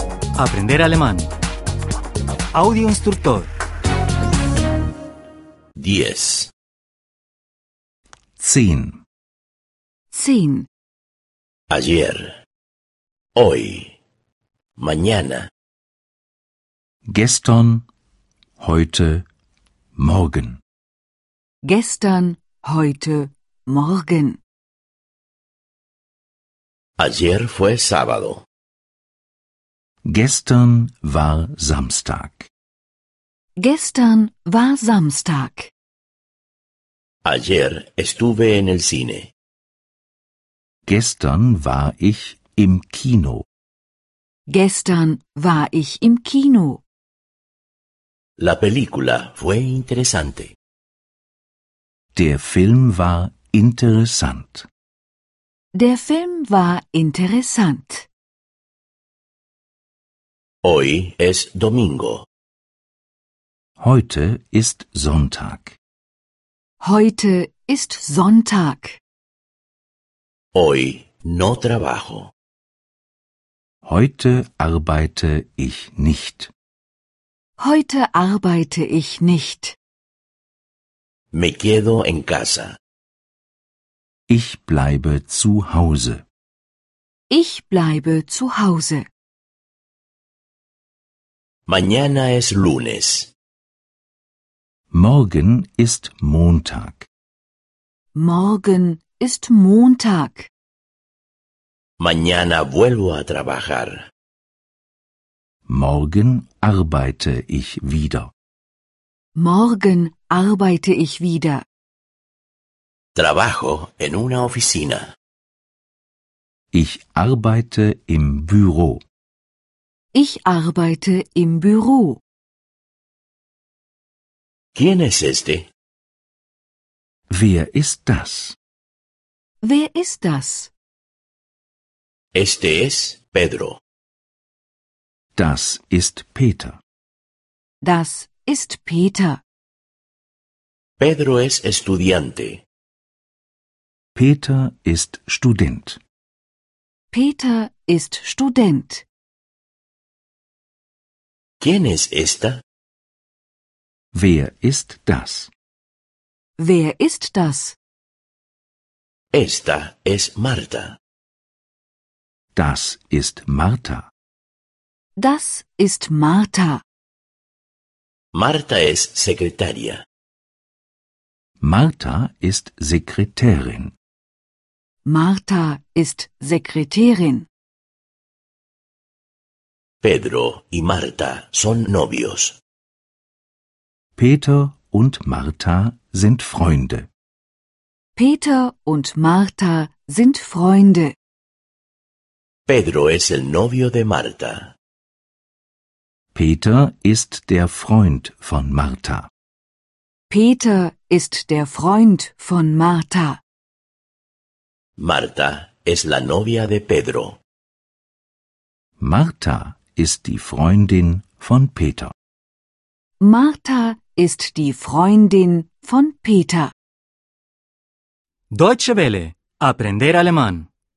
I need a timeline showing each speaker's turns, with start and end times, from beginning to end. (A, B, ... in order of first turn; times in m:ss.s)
0:00.4-0:01.3 A
0:02.5-0:03.5 A
0:05.8-0:06.5 B
0:08.4-0:09.0 C
0:10.1-0:10.7 D
0:11.7-0:12.4 B
0:13.4-0:13.9 B
0:14.8-0:15.5 B
0:17.1-0:17.8 C
0:18.6-0:19.2 C
0:20.0-0:20.6 C
0:21.6-0:24.4 D
0:27.0-0:28.4 B
0:30.0-0:32.5 C
0:33.6-0:35.7 D
0:37.2-0:39.3 B
0:40.9-0:43.4 C
0:44.5-0:46.8 D
0:48.4-0:50.5 B
0:52.1-0:54.7 C
0:55.7-0:58.1 D
1:00.6-1:02.2 B
1:03.8-1:05.8 C
1:06.8-1:09.0 D
1:10.5-1:12.3 B
1:13.8-1:16.5 C
1:17.6-1:19.8 D
1:21.3-1:22.8 B
1:24.3-1:26.2 C
1:27.3-1:29.1 D
1:31.7-1:33.3 B
1:34.9-1:37.1 C
1:38.1-1:40.5 D
1:42.0-1:44.0 B
1:45.7-1:48.3 C
1:49.3-1:51.6 D
1:53.2-1:55.1 B
1:56.7-1:59.0 C
2:00.1-2:02.2 D
2:04.7-2:05.7 B
2:07.3-2:08.6 C
2:09.6-2:10.7 D
2:12.3-2:13.8 B
2:15.4-2:16.8 C
2:17.8-2:19.4 D
2:21.0-2:22.6 B
2:24.1-2:26.0 C
2:27.1-2:29.0 D
2:31.6-2:32.6 B
2:34.1-2:35.5 C
2:36.6-2:37.8 D
2:39.3-2:41.0 B
2:42.5-2:44.1 C
2:45.2-2:46.8 D
2:48.3-2:50.0 B
2:51.6-2:53.9 C
2:55.0-2:57.5 D
3:00.0-3:02.6 B
3:04.2-3:07.1 C
3:08.2-3:11.1 D
3:12.7-3:14.7 B
3:16.3-3:19.3 C
3:20.3-3:23.4 D
3:25.0-3:27.4 B
3:29.0-3:32.1 C
3:33.2-3:36.7 D
3:38.5-3:40.7 A